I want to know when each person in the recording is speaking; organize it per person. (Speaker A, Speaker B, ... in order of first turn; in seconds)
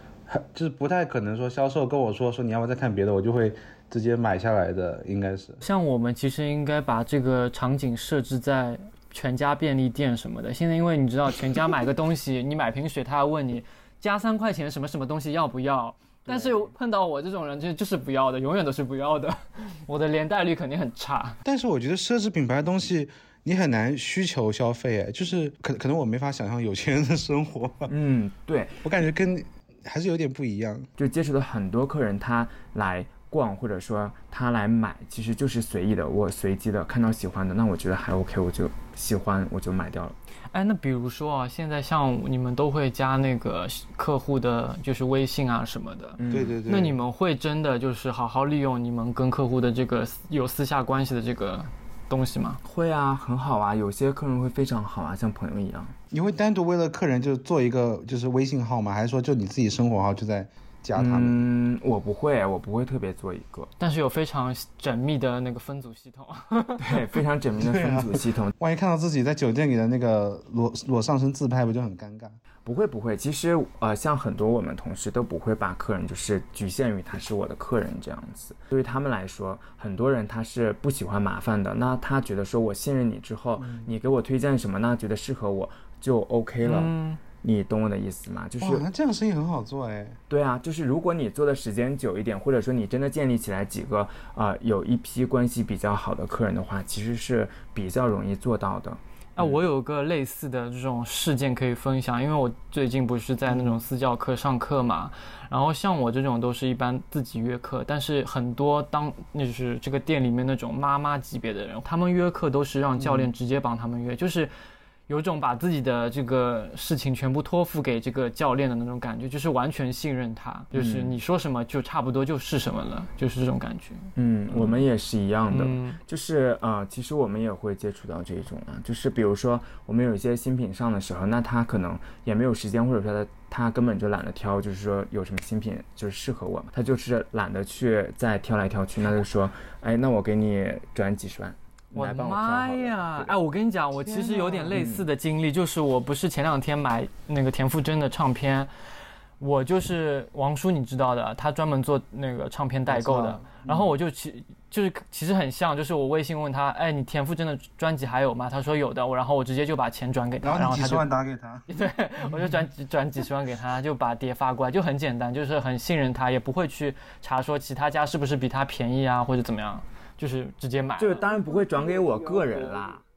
Speaker A: 0.3-5.6, 21.4-27.9, 28.8-30.9, 46.3-47.0, 56.1-61.4, 67.6-72.4, 83.6-83.9, 88.6-90.2, 103.5-103.8, 113.0-113.3, 152.9-153.9, 160.4-161.7
Speaker B: 5.6-21.4, 40.5-52.6, 63.8-67.1, 86.6-87.2, 99.3-114.5, 115.1-124.8, 125.5-126.0, 141.9-148.7, 149.4-161.0, 161.7-171.2
Speaker C: 16.2-16.7, 27.9-28.8, 31.0-40.1, 46.2-46.6, 52.6-55.9, 61.0-63.7, 66.8-68.5, 72.6-88.8, 90.3-99.6, 120.7-121.2, 124.2-143.3, 144.0-145.1, 171.0-173.0